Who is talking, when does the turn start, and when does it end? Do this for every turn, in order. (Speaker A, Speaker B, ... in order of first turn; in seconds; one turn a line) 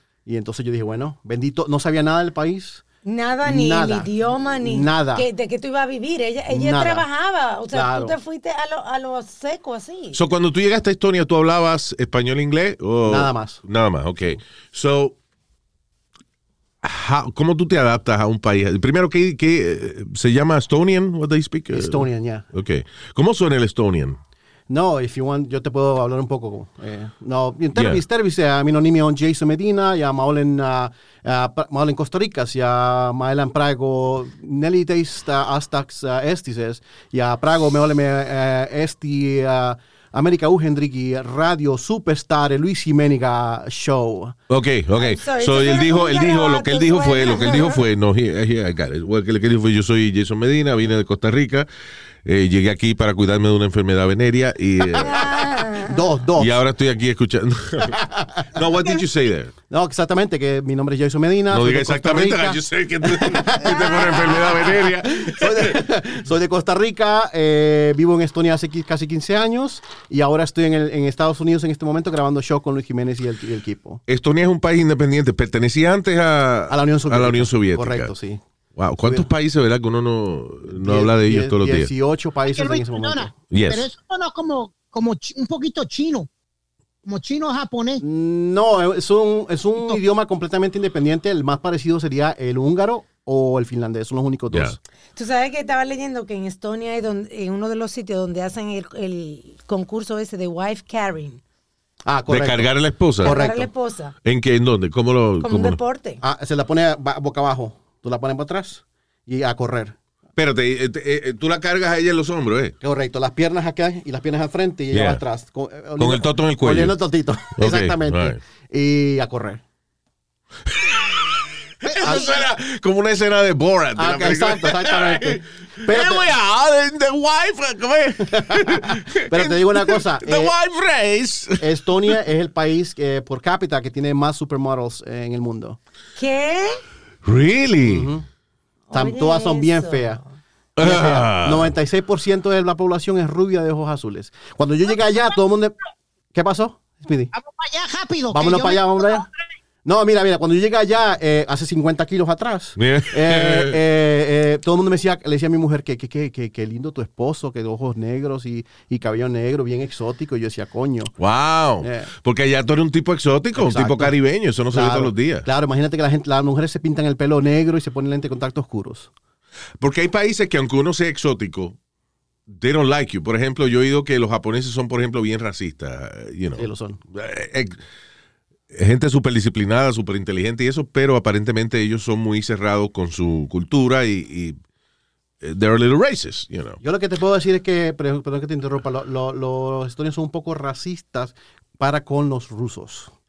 Speaker A: 0.3-2.8
Speaker B: 3.0-10.2
Speaker A: 3.4-5.3
Speaker A: 6.5-7.1
Speaker A: 7.7-8.2
Speaker C: 10.1-15.2
Speaker A: 13.1-13.6
Speaker C: 16.8-24.2
Speaker A: 21.7-22.5
Speaker A: 24.7-44.4
Speaker C: 27.7-28.0
Speaker C: 44.5-51.7
Speaker B: 45.0-47.8
Speaker C: 52.2-55.3
Speaker A: 55.0-55.3
Speaker B: 55.0-56.0
Speaker A: 55.8-56.6
Speaker C: 56.4-58.0
Speaker A: 57.9-58.5
Speaker C: 58.5-59.5
Speaker A: 59.7-74.0
Speaker C: 61.5-65.8
Speaker C: 74.1-78.2
Speaker A: 76.7-78.4
Speaker C: 78.8-81.9
Speaker A: 80.7-83.3
Speaker D: 82.5-86.3
Speaker C: 83.5-83.9
Speaker D: 87.0-88.0
Speaker A: 88.0-94.8
Speaker C: 94.5-94.8
Speaker B: 95.2-101.4
Speaker A: 102.0-103.7
Speaker C: 102.3-103.5
Speaker B: 103.2-104.1
Speaker C: 104.2-105.8
Speaker B: 105.4-106.2
Speaker A: 106.2-110.0
Speaker C: 110.4-112.8
Speaker A: 112.8-119.6
Speaker C: 114.9-115.2
Speaker C: 116.0-117.0
Speaker C: 117.6-118.4
Speaker C: 120.7-132.2
Speaker A: 121.9-122.4
Speaker A: 124.0-126.3
Speaker A: 128.3-130.6
Speaker A: 131.6-135.8
Speaker B: 136.2-136.8
Speaker C: 137.2-138.1
Speaker A: 137.8-138.3
Speaker B: 138.9-140.3
Speaker A: 138.9-140.2
Speaker C: 140.8-141.8
Speaker A: 140.8-145.8
Speaker A: 146.3-147.3
Speaker D: 147.3-149.4
Speaker A: 148.3-149.3
Speaker A: 149.8-161.1
Speaker C: 152.8-153.8
Speaker C: 161.2-165.5
Speaker A: 161.8-162.1
Speaker A: 163.6-164.1
Speaker A: 164.7-169.1
Speaker C: 169.8-171.8
Speaker C: 172.5-177.8
Speaker A: 176.6-177.0
Speaker C: 178.7-184.6
Speaker C: 185.4-186.8
Speaker A: 186.8-193.1